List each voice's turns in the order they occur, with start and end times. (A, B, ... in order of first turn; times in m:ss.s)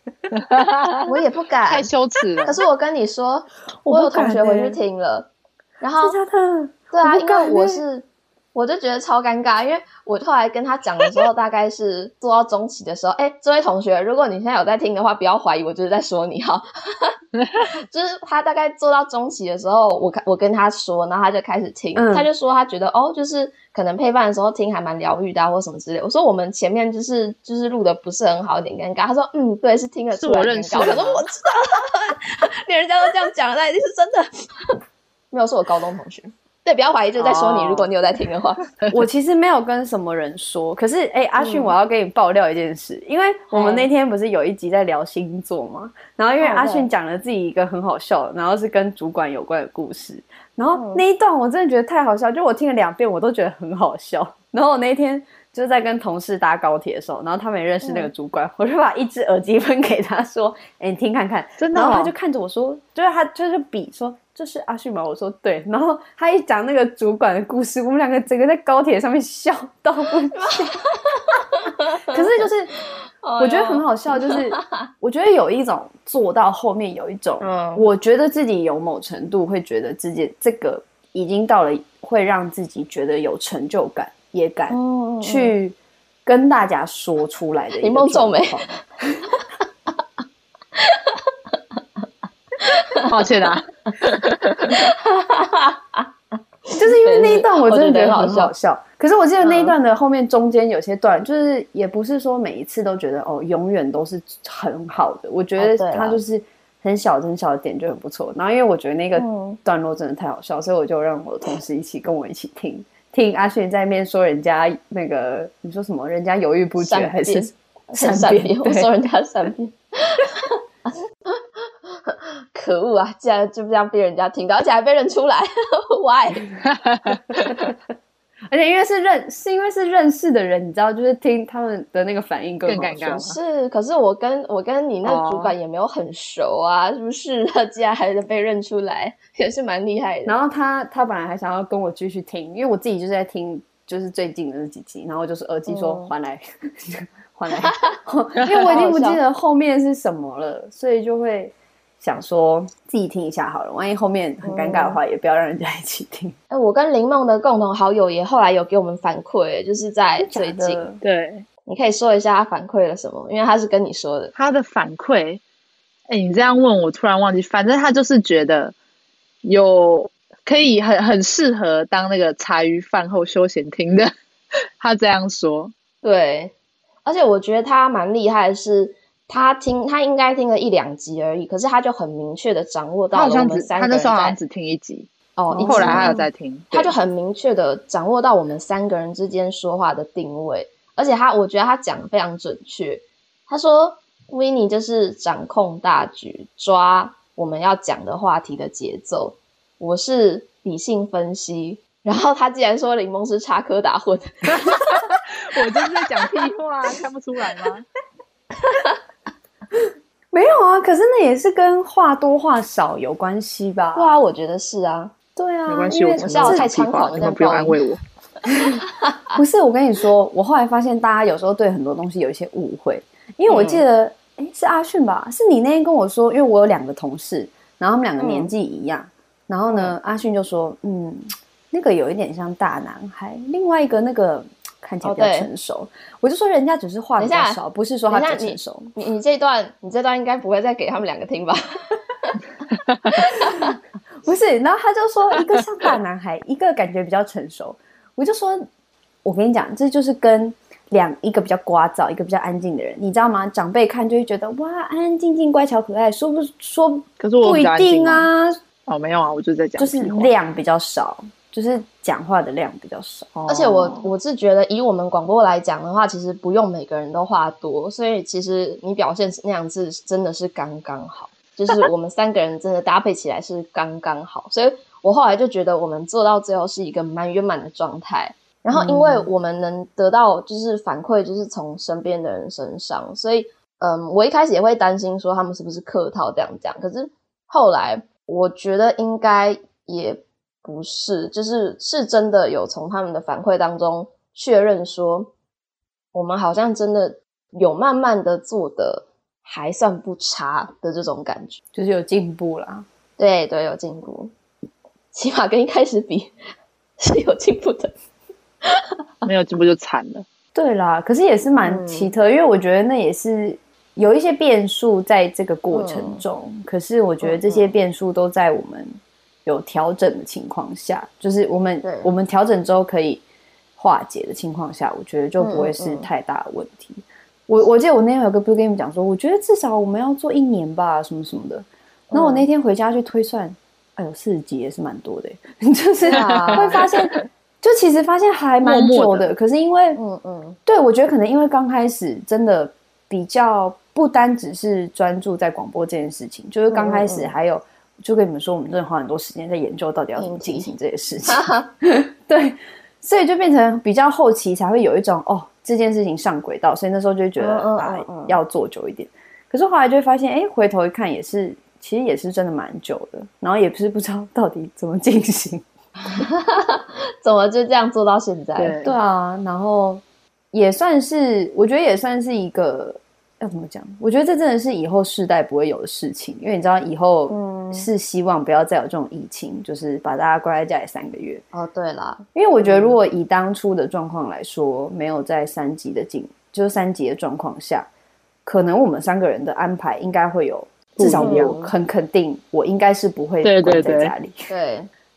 0:00.4-0:01.0 A
0:01.0-0:01.9 B
0:01.7-0:02.6 A
0:02.4-0:06.2 B
0:03.8-0:04.8 C
0:06.0-0:07.8 C
0:06.9-0:17.1 B
0:17.6-0:34.7 B
0:22.0-0:22.3 C
0:30.1-0:31.2 A
0:35.3-0:38.7 B
0:37.2-0:37.9 A
0:38.9-1:10.8 C
0:41.4-0:41.7 B
0:43.5-0:43.9 B
0:46.4-0:46.9 B
0:50.7-0:51.0 B
0:57.8-0:58.1 B
1:01.6-1:02.1 A
1:10.3-1:12.5 B
1:12.0-1:12.7 C
1:13.2-1:14.8 B
1:13.4-1:28.8 C
1:17.4-1:17.8 B
1:24.7-1:25.6 B
1:27.8-1:28.8 B
1:30.8-1:31.2 B
1:32.6-1:33.1 B
1:33.0-1:34.7 A
1:34.7-1:36.1 B
1:36.7-1:38.5 B
1:36.8-1:58.9 C
1:39.4-1:39.7 B
1:45.6-1:46.2 B
1:49.2-1:49.6 B
1:56.8-2:06.5 B
2:06.7-2:07.5 A
2:07.3-2:07.7 C
2:08.5-2:13.3 C
2:12.6-2:13.4 A
2:13.2-2:20.4 B
2:15.0-2:15.5 A
2:20.2-2:36.4 C
2:25.7-2:26.1 B
2:27.6-2:28.0 B
2:28.6-2:29.2 B
2:34.4-2:35.0 B
2:36.5-2:40.8 B
2:40.2-2:41.0 C
2:41.0-2:41.4 A
2:41.6-2:44.3 B
2:44.3-2:45.4 A
2:46.1-2:48.7 A
2:49.4-2:54.1 A
2:54.8-2:55.7 A
2:56.0-2:56.5 B
2:57.0-3:04.4 B
3:03.1-3:06.9 A
3:05.4-3:24.9 B
3:05.5-3:06.2 C
3:24.6-3:27.8 A
3:30.3-3:34.1 C
3:33.9-3:35.1 B
3:35.4-3:36.7 C
3:35.7-3:38.0 A
3:36.2-3:37.8 B
3:38.5-3:38.8 C
3:39.3-3:58.9 C
3:43.5-3:43.8 B
3:48.2-3:48.5 B
3:49.7-3:49.9 B
3:55.0-3:55.5 B
3:57.2-4:01.6 B
4:03.1-4:03.7 B
4:04.2-4:08.7 C
4:09.2-4:18.6 C
4:17.2-4:18.3 A
4:18.9-4:20.3 A
4:19.8-4:23.3 C
4:23.3-4:24.1 A
4:23.5-4:55.3 B
4:38.7-4:39.3 C
4:56.1-5:01.6 B
5:01.7-5:02.8 C
5:03.2-5:04.3 B
5:05.1-5:06.3 B
5:07.0-5:07.9 B
5:09.2-5:10.2 A
5:10.5-5:18.9 C
5:11.6-5:12.1 B
5:15.7-5:16.2 B
5:17.2-5:17.7 B
5:19.4-5:23.2 C
5:21.8-5:22.1 B
5:23.8-5:40.0 C
5:25.4-5:26.1 B
5:32.1-5:32.5 B
5:36.0-5:36.8 B
5:36.1-5:37.1 A
5:38.6-5:39.3 A
5:40.0-5:40.6 B
5:40.6-6:05.6 C
5:46.7-5:47.3 B
5:50.2-5:50.7 B
5:51.3-5:51.7 B
5:57.4-5:58.4 B
6:06.1-6:08.8 B
6:08.6-6:08.9 A
6:08.8-6:21.4 C
6:17.3-6:17.9 B
6:21.5-6:23.0 B
6:22.3-6:27.9 C
6:28.4-6:34.5 C
6:31.0-6:31.5 A
6:31.2-6:31.7 B
6:33.4-6:34.1 A
6:34.5-6:34.9 B